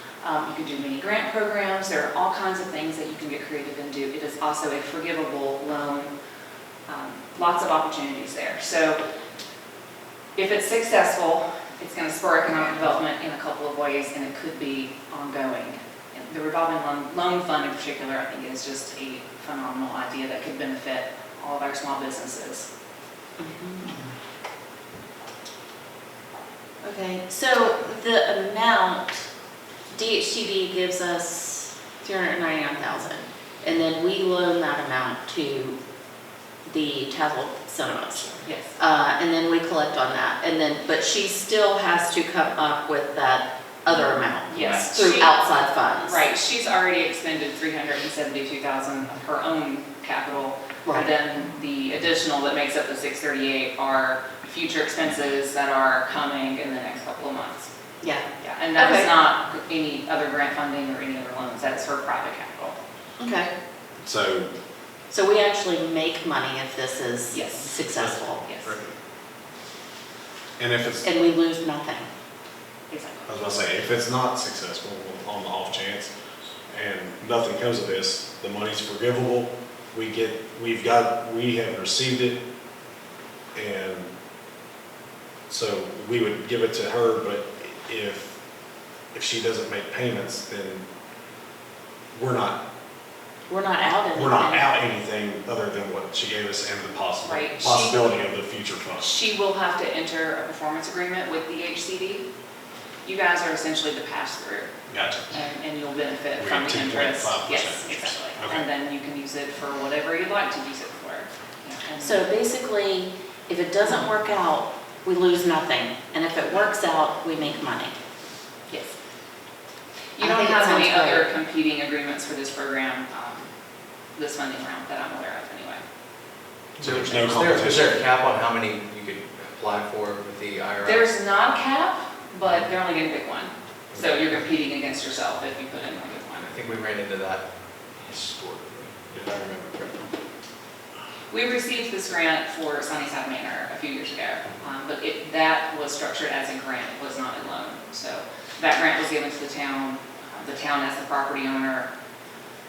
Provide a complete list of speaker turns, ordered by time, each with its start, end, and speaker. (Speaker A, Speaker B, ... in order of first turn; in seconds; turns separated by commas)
Speaker A: 0.2-6.1, Speaker A: 6.9-9.0, Speaker A: 10.3-22.7, Speaker B: 23.4-23.9, Speaker B: 26.8-29.3, Speaker B: 29.9-35.8, Speaker B: 36.7-46.2, Speaker A: 38.4-38.8, Speaker A: 44.5-45.4, Speaker A: 46.1-57.7, Speaker B: 58.0-59.1, Speaker A: 58.4-62.8, Speaker B: 63.2-63.5, Speaker C: 64.0-64.5, Speaker B: 65.1-68.4, Speaker A: 67.3-67.8, Speaker A: 68.4-68.7, Speaker C: 70.6-71.1, Speaker B: 71.0-72.1, Speaker A: 72.9-73.3, Speaker C: 73.3-76.1, Speaker C: 76.7-82.4, Speaker C: 83.5-84.1, Speaker C: 85.5-88.3, Speaker C: 89.1-90.8, Speaker C: 92.1-92.6, Speaker B: 93.5-94.7, Speaker C: 94.1-99.2, Speaker A: 97.2-98.2, Speaker A: 99.0-102.2, Speaker A: 103.0-104.7, Speaker C: 104.9-105.3, Speaker A: 105.3-112.3, Speaker C: 106.3-108.7, Speaker B: 112.0-117.9, Speaker A: 118.7-118.9, Speaker A: 120.2-123.5, Speaker B: 120.2-121.3, Speaker A: 124.2-125.8, Speaker D: 126.8-131.1, Speaker C: 126.8-128.0, Speaker A: 130.8-136.5, Speaker D: 136.4-140.1, Speaker A: 141.3-151.9